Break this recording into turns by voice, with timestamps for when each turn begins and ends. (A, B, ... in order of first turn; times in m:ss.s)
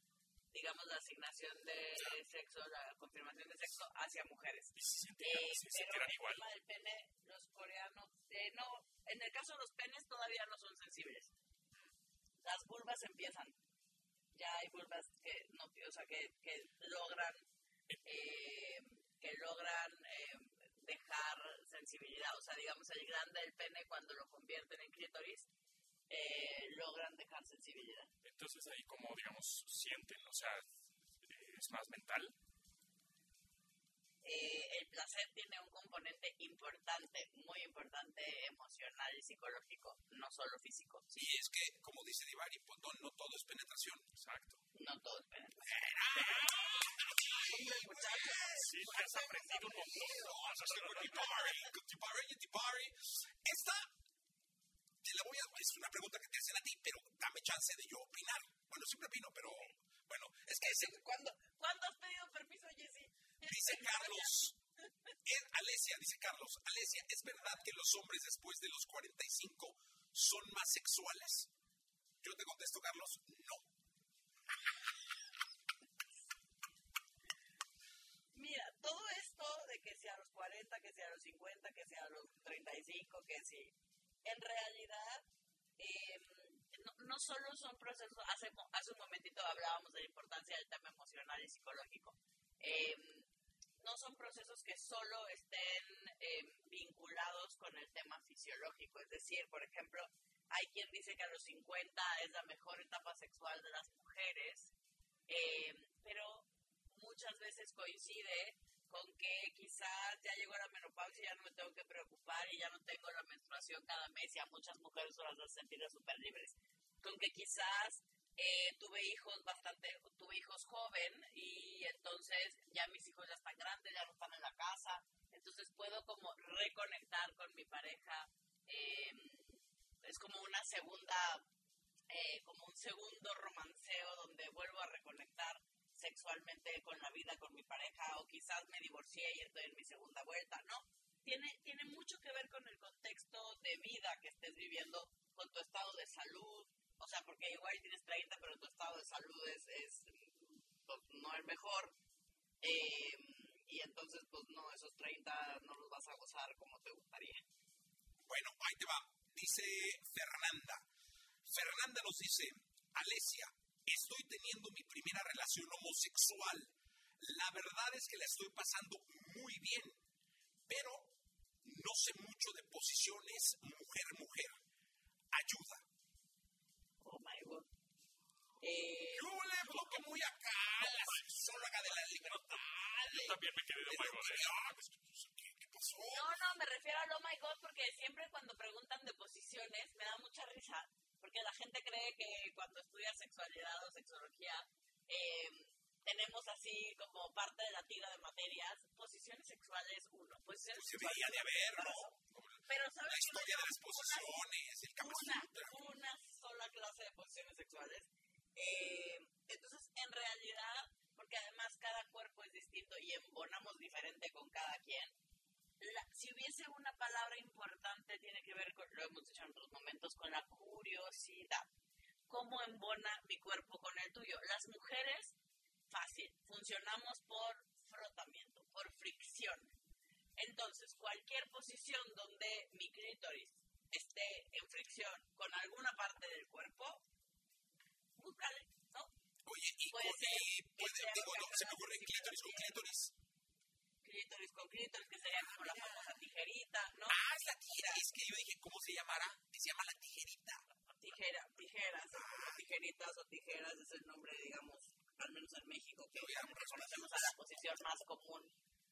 0:00.5-0:11.3 A
0:04.7-0:06.4 B
0:12.4-0:13.6 A
0:14.3-0:17.4 A
0:18.0-0:25.5 A
0:26.1-0:28.1 A
0:28.2-0:30.6 B
0:31.2-0:32.3 B
0:34.2-0:41.2 A
0:41.1-0:44.1 C
0:44.1-0:44.6 B
0:44.7-0:46.0 A
0:45.6-0:49.0 C
0:46.2-0:51.7 B
0:46.7-0:50.2 A
0:49.6-0:53.9 C
0:55.0-1:01.0 C
1:00.6-1:04.5 A
1:03.4-1:04.6 C
1:05.2-1:11.5 C
1:12.2-1:13.6 C
1:18.3-1:25.2 A
1:25.8-1:33.3 A
1:33.8-1:44.7 A
1:45.3-2:11.4 A
2:12.1-2:31.9 A
2:32.6-2:37.4 A
2:38.2-2:40.8 C
2:41.4-2:50.0 C
2:50.7-2:54.6 C
2:55.3-2:55.8 C
2:57.0-2:57.7 A
2:58.6-2:59.9 A
2:59.1-3:06.4 C
3:02.0-3:04.6 B
3:06.0-3:22.1 A
3:20.7-3:25.9 C
3:22.7-3:35.1 A
3:35.8-3:41.7 A
3:42.3-3:45.3 A
3:45.9-3:49.7 A
3:50.4-3:57.0 A
3:58.2-3:59.1 A
3:59.4-4:03.1 C
3:59.9-4:02.9 A
4:04.0-4:07.2 A
4:05.4-4:05.9 C
4:07.1-4:10.6 C
4:11.0-4:18.5 A
4:12.1-4:12.6 C
4:16.1-4:17.4 C